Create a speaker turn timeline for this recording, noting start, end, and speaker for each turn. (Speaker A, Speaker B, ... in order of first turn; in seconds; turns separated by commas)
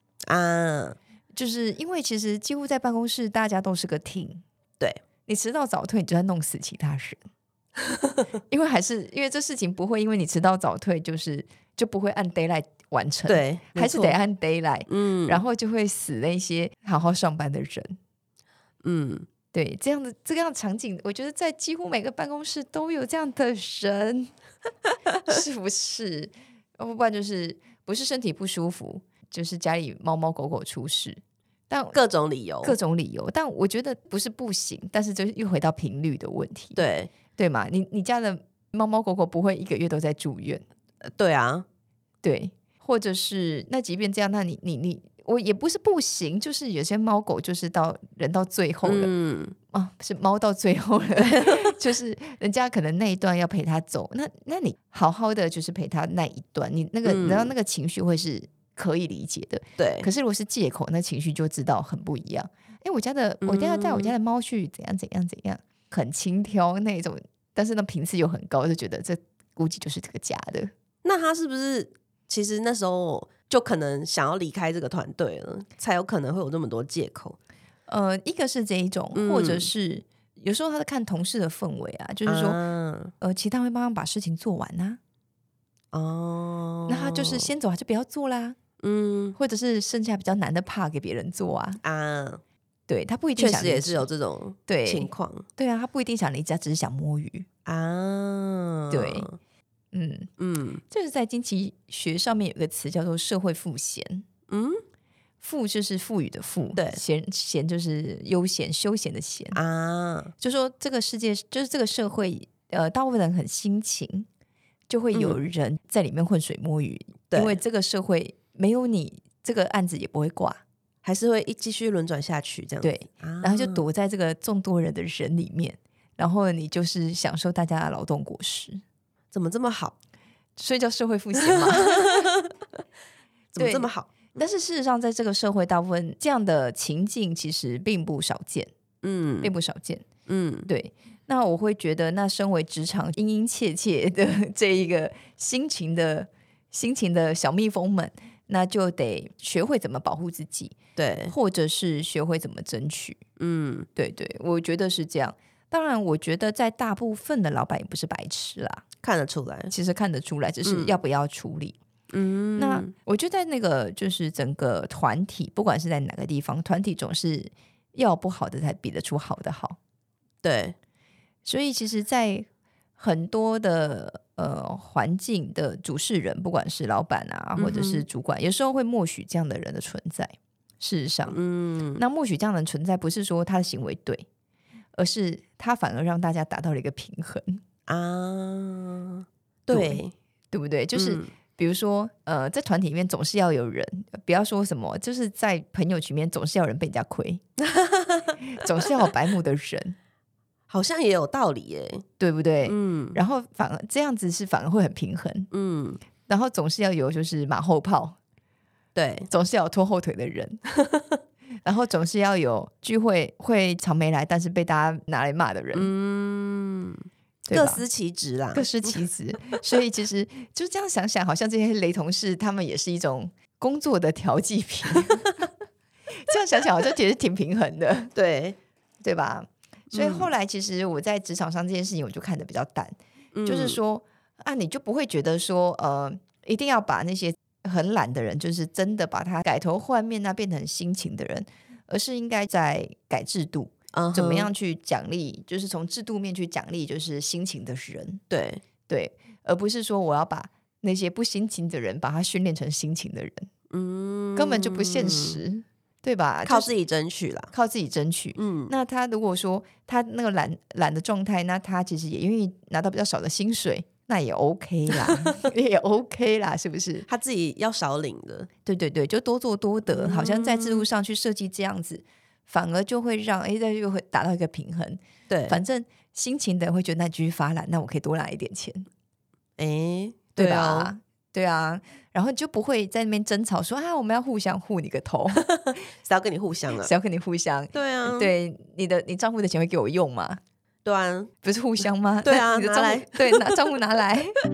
Speaker A: 0.3-1.0, Speaker B: 1.3-4.4, Speaker B: 5.3-7.2, Speaker B: 8.5-18.0, Speaker A: 13.3-14.2, Speaker A: 14.9-15.4, Speaker A: 18.8-19.3, Speaker B: 19.5-24.3, Speaker B: 25.1-32.0, Speaker A: 31.9-32.8, Speaker B: 32.6-36.8, Speaker A: 36.8-37.1, Speaker B: 37.4-40.6, Speaker A: 41.0-41.7, Speaker B: 42.2-49.1, Speaker A: 48.8-49.5, Speaker B: 49.7-70.7, Speaker A: 57.0-57.5, Speaker A: 59.8-60.1, Speaker A: 63.4-64.2, Speaker A: 71.0-77.4, Speaker B: 77.9-82.6, Speaker A: 79.1-79.7, Speaker A: 82.3-83.1, Speaker B: 83.2-85.0, Speaker A: 85.9-87.5, Speaker B: 86.9-88.6, Speaker A: 88.8-89.4, Speaker B: 89.4-91.8, Speaker A: 91.8-92.4, Speaker B: 92.9-94.1, Speaker A: 93.4-95.5, Speaker B: 94.7-97.5, Speaker A: 97.7-99.4, Speaker B: 98.9-99.3, Speaker B: 99.9-100.3, Speaker A: 100.4-100.8, Speaker B: 100.9-104.3, Speaker A: 104.5-104.8, Speaker B: 105.4-109.6, Speaker A: 106.8-107.0, Speaker A: 109.5-110.3, Speaker B: 110.4-114.3, Speaker B: 114.9-120.6, Speaker A: 115.1-115.4, Speaker A: 117.3-117.6, Speaker A: 121.0-123.9, Speaker B: 122.8-128.8, Speaker A: 129.3-129.9, Speaker B: 130.6-132.3, Speaker A: 131.4-132.5, Speaker A: 133.5-134.3, Speaker B: 133.6-138.7, Speaker A: 139.0-139.5, Speaker B: 139.4-140.1, Speaker A: 140.3-140.7, Speaker B: 140.7-150.8, Speaker A: 151.0-151.3, Speaker B: 151.3-153.2, Speaker A: 153.4-153.9, Speaker B: 153.9-158.8, Speaker A: 159.0-159.7, Speaker B: 159.7-161.8, Speaker A: 160.6-161.0, Speaker A: 162.1-162.9, Speaker B: 162.6-169.8, Speaker A: 170.4-170.8, Speaker B: 171.4-172.5, Speaker B: 173.0-181.4, Speaker A: 177.6-178.1, Speaker A: 181.3-182.0, Speaker B: 181.9-184.3, Speaker B: 185.0-187.6, Speaker A: 187.9-190.1, Speaker B: 189.7-197.4, Speaker A: 190.9-191.3, Speaker A: 197.6-198.4, Speaker B: 198.4-200.0, Speaker A: 200.7-202.1, Speaker B: 202.2-205.5, Speaker A: 202.7-203.2, Speaker A: 205.5-206.0, Speaker B: 206.3-208.2, Speaker A: 208.9-209.3, Speaker B: 209.3-210.6, Speaker B: 211.7-215.9, Speaker A: 215.7-219.6, Speaker B: 217.5-217.8, Speaker B: 218.5-225.3, Speaker B: 226.1-228.1, Speaker A: 228.2-228.6, Speaker B: 229.0-248.2, Speaker A: 229.9-230.3, Speaker A: 233.3-233.8, Speaker A: 243.9-244.5, Speaker A: 248.3-248.6, Speaker B: 248.9-253.5, Speaker A: 253.7-255.4, Speaker B: 254.4-256.7, Speaker A: 256.4-257.5, Speaker B: 257.5-267.1, Speaker A: 258.4-258.7, Speaker A: 264.9-265.5, Speaker A: 267.1-268.5, Speaker B: 268.6-278.9, Speaker A: 269.9-270.9, Speaker A: 275.3-275.6, Speaker A: 279.6-280.9, Speaker B: 280.4-285.5, Speaker A: 285.4-286.9, Speaker B: 286.8-290.4, Speaker A: 287.7-288.3, Speaker A: 290.9-291.3, Speaker B: 291.4-294.3, Speaker A: 292.2-293.8